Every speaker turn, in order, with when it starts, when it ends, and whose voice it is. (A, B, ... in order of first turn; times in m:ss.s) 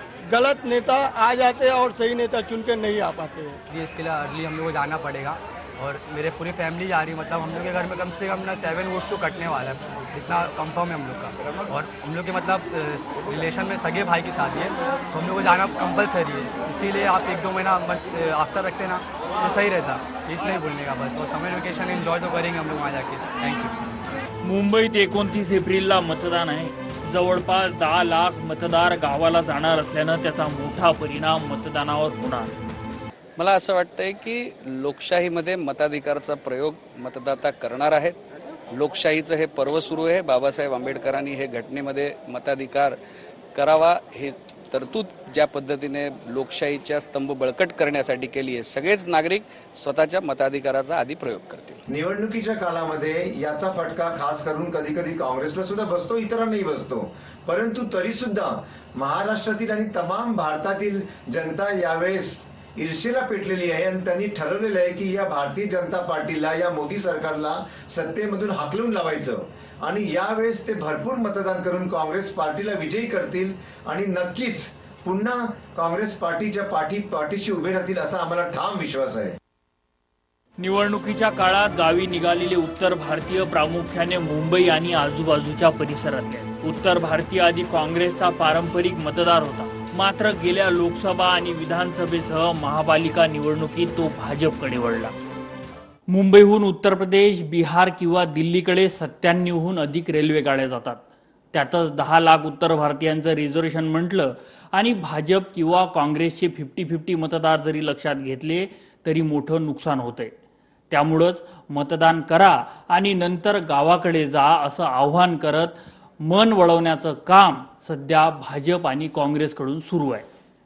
0:00.3-0:03.6 A
0:03.7-0:23.7 B
0:24.4-0:32.5 C
0:33.4-0:38.2 D
0:38.7-0:43.0 D
0:43.5-0:51.8 D
0:51.9-1:19.3 E
1:20.6-1:35.1 C
1:36.1-1:41.0 C
1:41.5-1:50.3 C
1:50.9-2:00.2 C